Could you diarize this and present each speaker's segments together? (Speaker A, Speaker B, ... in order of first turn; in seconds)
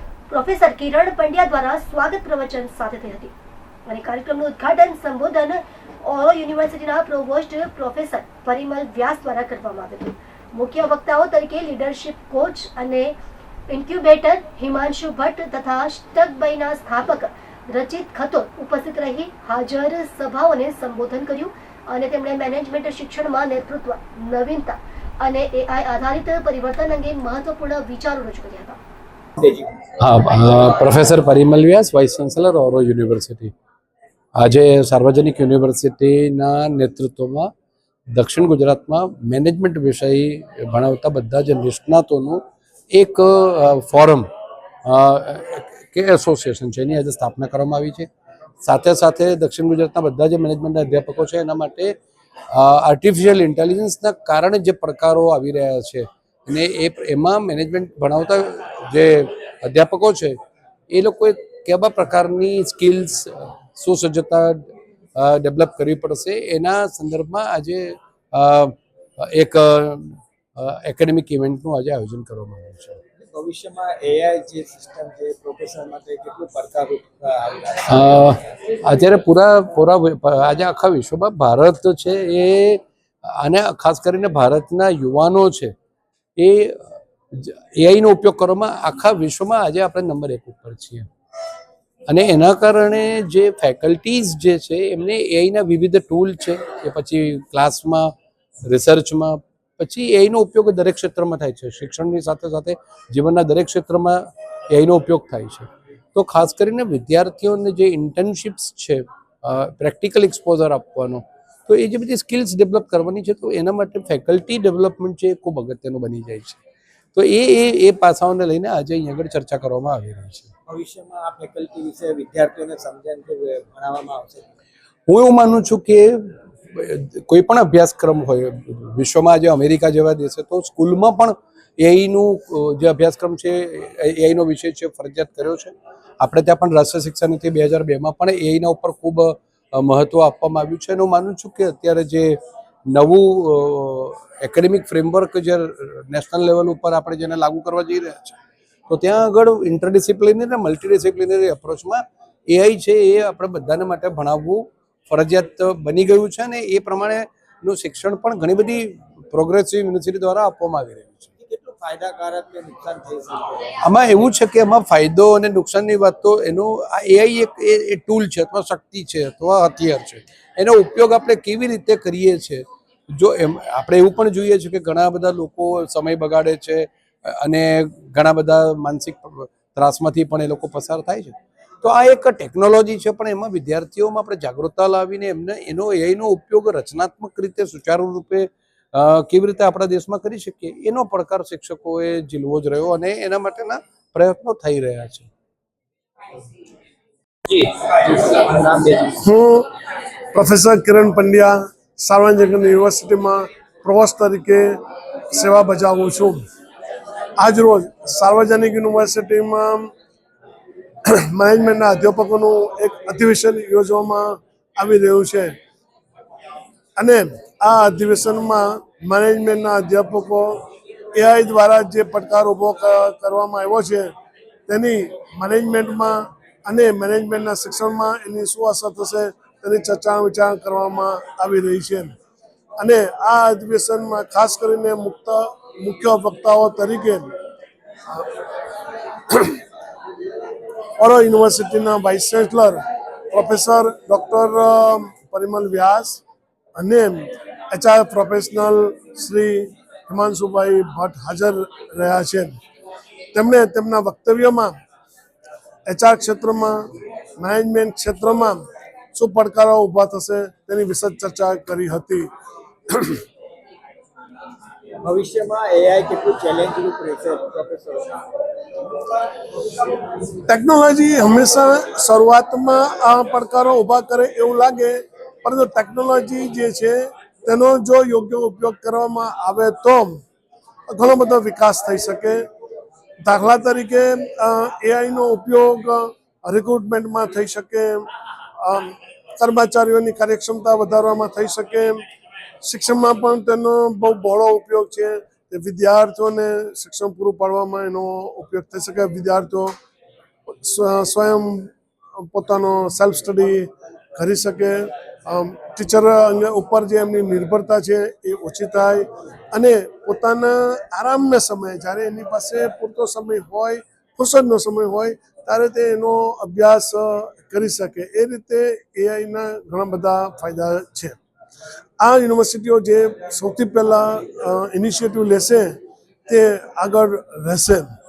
Speaker A: 0.3-3.3, 3.9-13.2, 13.7-28.8
Speaker B: 29.4-29.7, 73.2-78.0, 120.7-124.5, 161.4-163.7, 197.5-199.2, 265.0-268.2
Speaker C: 30.0-33.5, 34.4-37.5, 38.1-44.3, 44.9-48.1, 48.6-51.9, 52.5-60.4, 60.9-64.6, 65.2-73.0, 77.9-85.7, 86.4-91.1, 92.1-98.1, 98.7-116.6, 117.1-120.5, 125.1-142.4, 142.9-148.4, 148.9-161.3, 163.8-195.3
Speaker D: 199.2-199.7, 200.3-204.8, 205.3-206.4, 207.4-209.9, 211.3-215.5, 217.0-220.6, 221.2-224.1, 224.7-232.2, 232.8-237.3, 239.3-239.6, 241.0-242.8, 243.3-246.2, 246.8-252.6, 253.3-254.7, 255.8-256.8, 257.4-258.6, 259.1-262.3, 262.9-263.2, 270.5-280.2, 280.9-282.4, 283.2-288.1, 288.6-292.0, 292.6-299.7, 300.6-301.7, 302.3-321.2, 322.0-327.9